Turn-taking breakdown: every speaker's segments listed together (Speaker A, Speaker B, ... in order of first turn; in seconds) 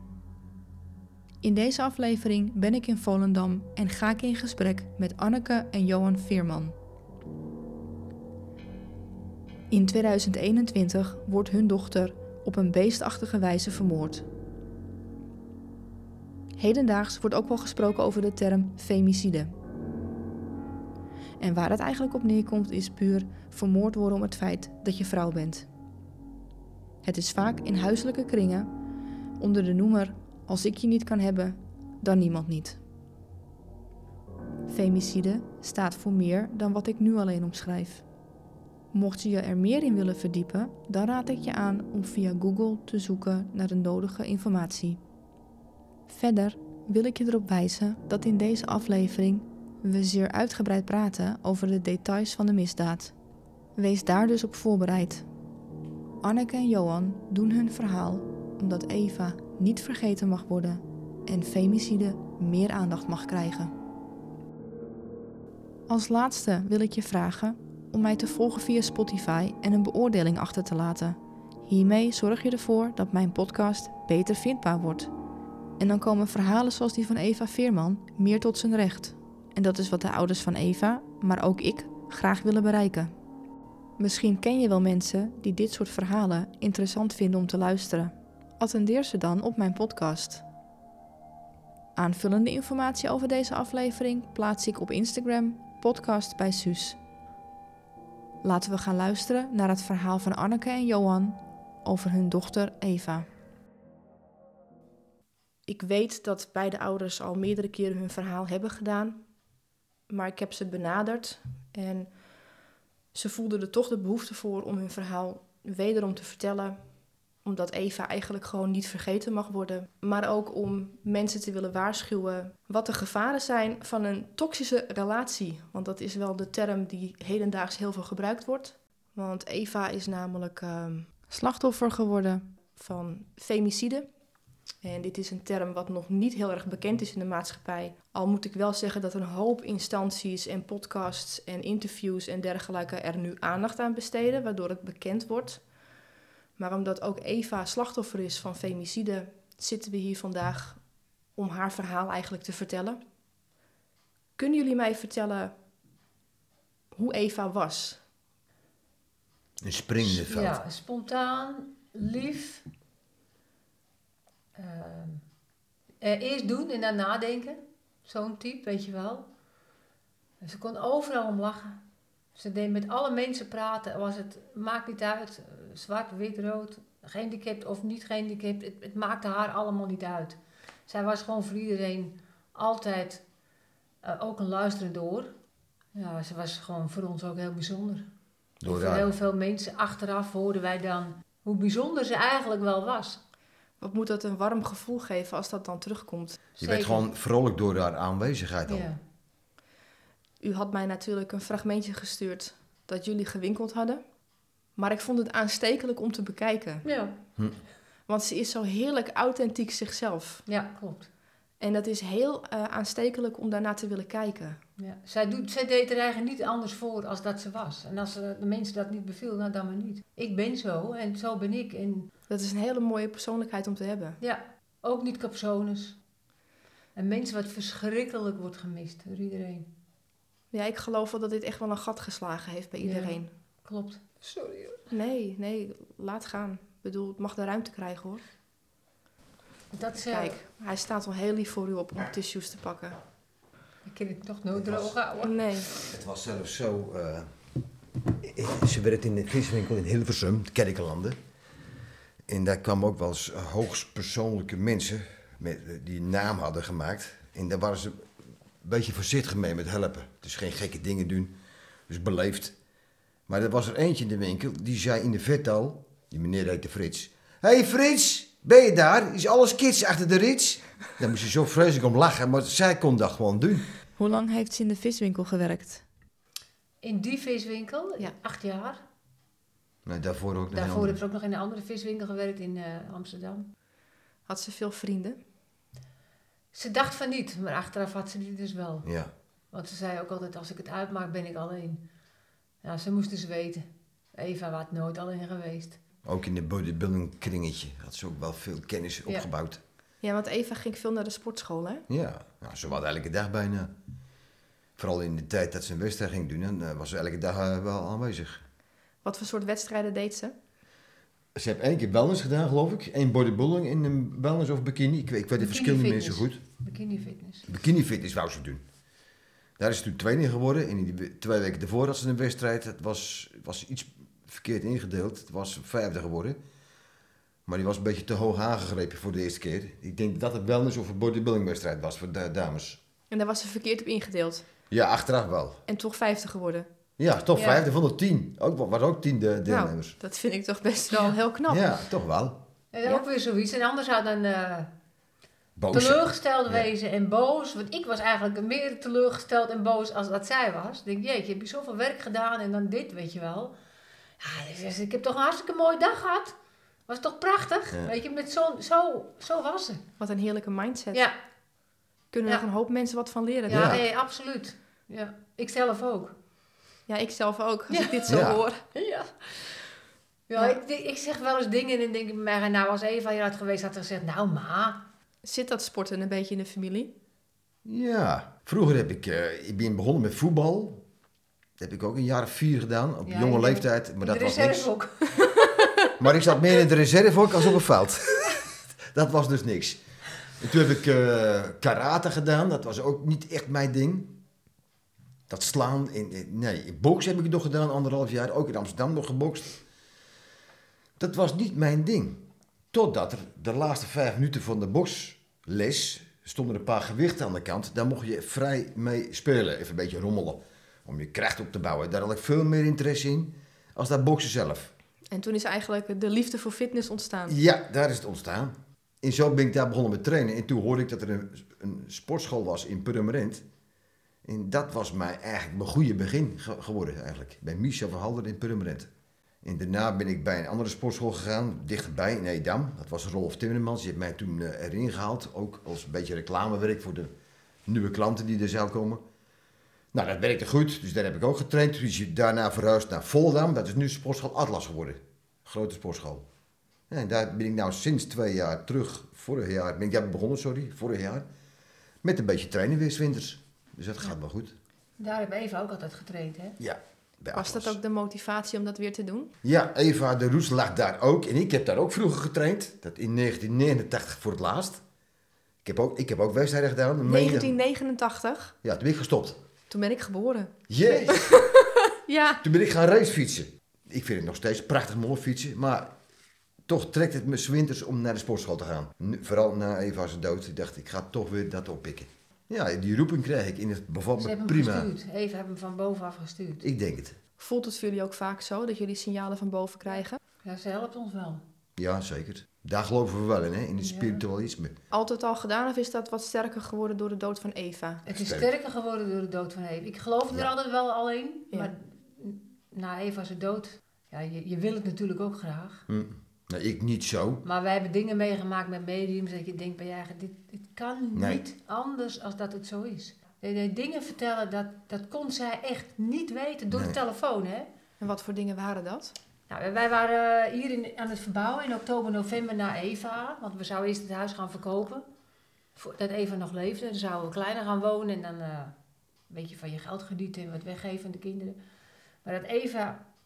Speaker A: 1.4-6.8, 9.7-14.3, 16.6-19.5, 21.4-25.7, 27.0-28.7, 29.4-32.8, 34.7-38.0, 38.9-45.0, 46.1-53.1, 53.8-55.3, 56.2-63.7, 65.9-75.1, 75.8-83.1, 84.0-90.4, 92.0-97.0, 98.4-103.3, 105.7-109.2, 110.1-112.1, 113.1-116.8, 117.4-134.1, 134.8-145.7, 146.6-150.8, 151.3-153.0, 154.4-155.6, 156.9-158.0, 193.8-196.4, 200.4-204.0, 204.8-206.8, 208.1-210.4, 211.6-214.6, 222.3-224.2, 230.5-233.3, 234.9-238.2, 240.1-243.0, 245.2-245.7, 274.0-275.8, 284.3-285.2, 300.0-301.9, 309.0-310.4, 333.1-334.5, 335.7-336.7, 339.5-341.8, 360.0-361.0, 362.1-363.8, 366.9-368.6, 375.2-376.9, 415.1-417.4, 457.3-459.3, 467.1-468.6, 469.7-472.4, 487.4-490.2, 494.9-498.0, 518.0-519.1
Speaker B: 159.6-160.6, 188.6-189.1, 196.6-198.9, 244.5-245.0, 245.8-247.4, 248.2-251.2, 252.3-261.4, 261.9-262.6, 263.3-273.7, 279.9-281.0, 288.9-289.1, 296.1-299.6, 301.9-303.7, 304.8-308.4, 311.4-316.4, 317.5-318.6, 319.6-326.4, 327.5-332.8, 334.7-335.6, 337.0-340.0, 341.5-342.4, 345.6-346.7, 363.5-363.8, 368.1-368.4, 377.6-380.8, 381.6-384.7, 385.9-394.2, 395.3-399.6, 401.0-414.7, 417.3-423.4, 424.2-428.9, 429.4-437.1, 437.7-439.0, 439.9-446.2, 446.9-451.3, 452.0-454.6, 456.6-457.8, 459.4-464.8, 465.6-467.6, 468.6-469.4, 470.7-471.4, 472.4-475.9, 476.7-484.9, 486.6-487.2, 491.8-494.8, 498.1-498.5, 505.9-507.4, 511.1-511.4
Speaker C: 160.0-162.6, 164.6-165.2, 166.0-169.3, 170.4-171.8, 172.3-183.2, 184.0-185.3, 185.9-188.1, 188.7-193.2, 196.6-197.1, 198.7-199.0, 206.8-207.2, 210.5-211.1, 214.8-222.1, 224.2-226.0, 227.0-229.7, 232.8-234.9, 239.7-240.4, 243.8-245.9, 276.8-278.8, 280.5-283.5, 286.5-288.9, 289.5-291.8, 292.6-295.8, 315.4-317.5, 337.4-337.6, 342.7-344.7, 345.7-353.5, 354.2-356.4, 356.9-359.8, 363.5-366.1, 367.7-368.2, 368.8-369.6, 370.3-374.8, 383.1-385.8, 455.0-456.6, 484.2-486.7, 489.9-491.4, 493.8-494.2, 498.1-505.9, 507.4-517.7, 519.5-525.0, 525.8-528.7, 529.3-531.6, 532.2-533.0